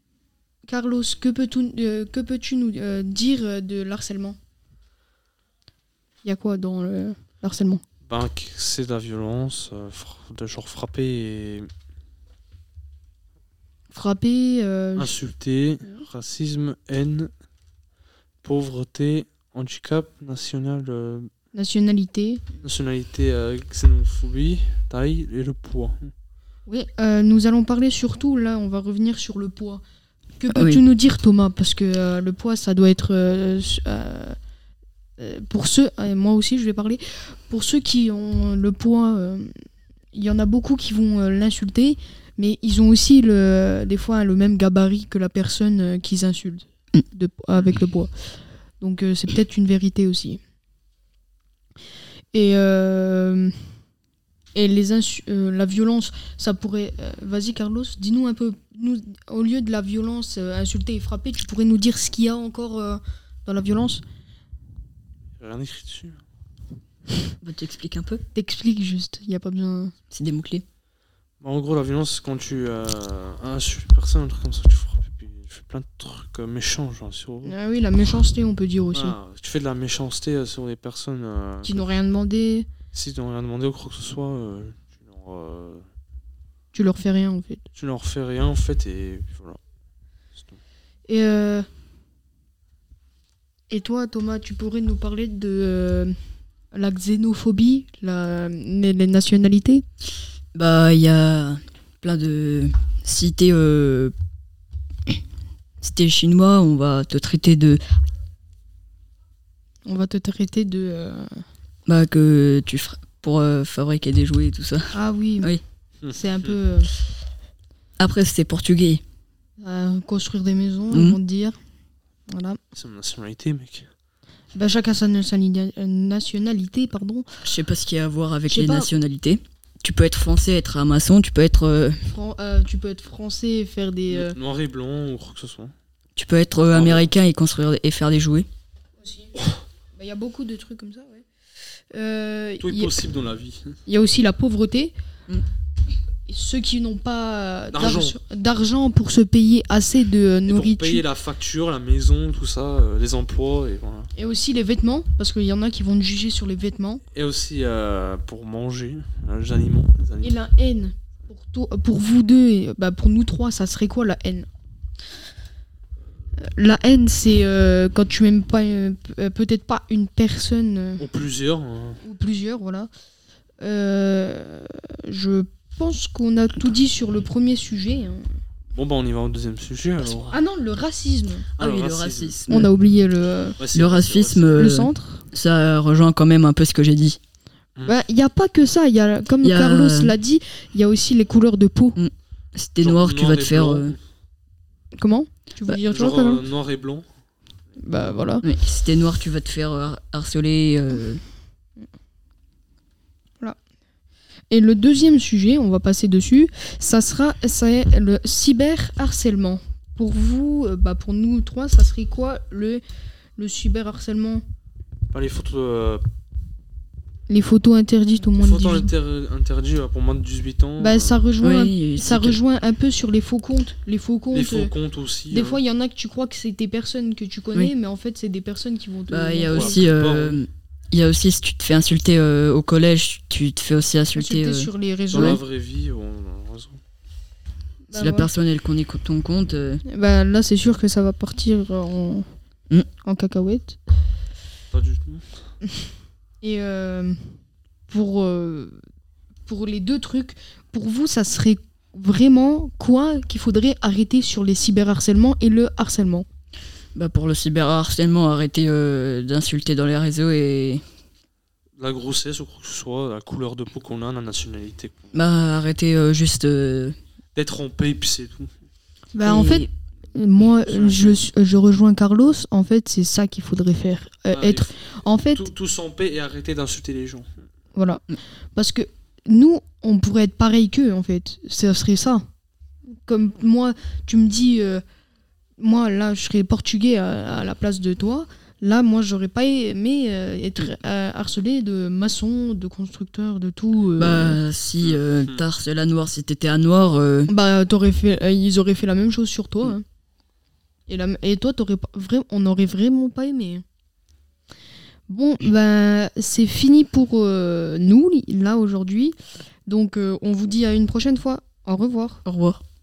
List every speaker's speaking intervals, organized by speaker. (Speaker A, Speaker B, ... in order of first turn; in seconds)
Speaker A: 0.7-4.4, 6.2-7.8, 13.9-15.1, 21.5-22.4, 26.6-29.8, 30.4-34.4, 35.2-39.5, 40.1-48.1, 48.8-50.4, 52.3-53.6, 54.5-64.0, 68.3-69.9, 77.4-79.2, 81.6-82.7, 86.7-87.6, 91.1-91.7, 93.7-96.2, 96.7-99.8, 109.8-111.4, 114.9-115.5, 116.1-116.9, 119.6-121.6, 122.3-122.6, 124.5-127.2, 128.5-128.9, 132.1-134.4, 139.0-139.3, 139.9-141.2, 141.9-143.1, 143.8-144.9, 146.3-151.0, 154.1-157.0, 160.2-164.5, 166.4-171.0, 172.0-172.9, 173.6-178.2, 180.3-181.5, 182.5-183.6, 184.6-185.2, 187.8-192.0, 194.9-196.4, 197.8-198.4, 204.5-212.8, 213.4-214.4, 217.3-218.9, 220.8-224.7, 225.3-229.9, 234.1-235.4, 237.9-238.3, 239.8-242.3, 243.0-243.8, 246.4-247.3, 247.9-248.8, 249.4-256.2, 269.1-275.5, 277.7-282.2, 283.0-284.8, 285.6-294.4, 297.3-299.8, 300.9-303.6, 305.1-312.2
Speaker B: 8.1-11.7, 15.0-17.3, 18.4-21.3, 22.6-26.1, 65.4-66.2, 71.4-77.5, 78.9-81.8, 82.9-85.8, 87.7-89.6, 116.0-116.5, 122.7-123.9, 134.1-135.7, 136.7-137.1, 142.6-143.8, 147.7-148.2, 150.5-154.1, 157.1-160.3, 171.0-172.0, 178.7-180.4, 181.6-182.4, 183.6-184.7, 192.8-194.0, 195.9-197.1, 215.1-216.0, 218.3-221.3, 224.3-225.6, 229.5-230.4, 235.1-236.8, 244.7-245.2, 261.8-265.1, 267.3-268.5, 270.7-271.2, 274.3-277.3, 294.8-295.4
Speaker C: 30.5-30.8, 67.4-68.2, 70.1-70.6, 100.5-104.1, 105.8-107.8, 111.9-115.6, 118.0-119.0, 120.9-121.2, 127.4-132.1, 136.2-138.5, 181.6-182.7, 183.7-187.2, 189.4-190.1, 191.9-193.9, 198.4-201.2, 221.4-222.4, 229.1-235.4, 237.9-239.8, 256.9-260.8, 265.1-266.9, 269.2-269.7, 294.0-297.3, 312.2-312.6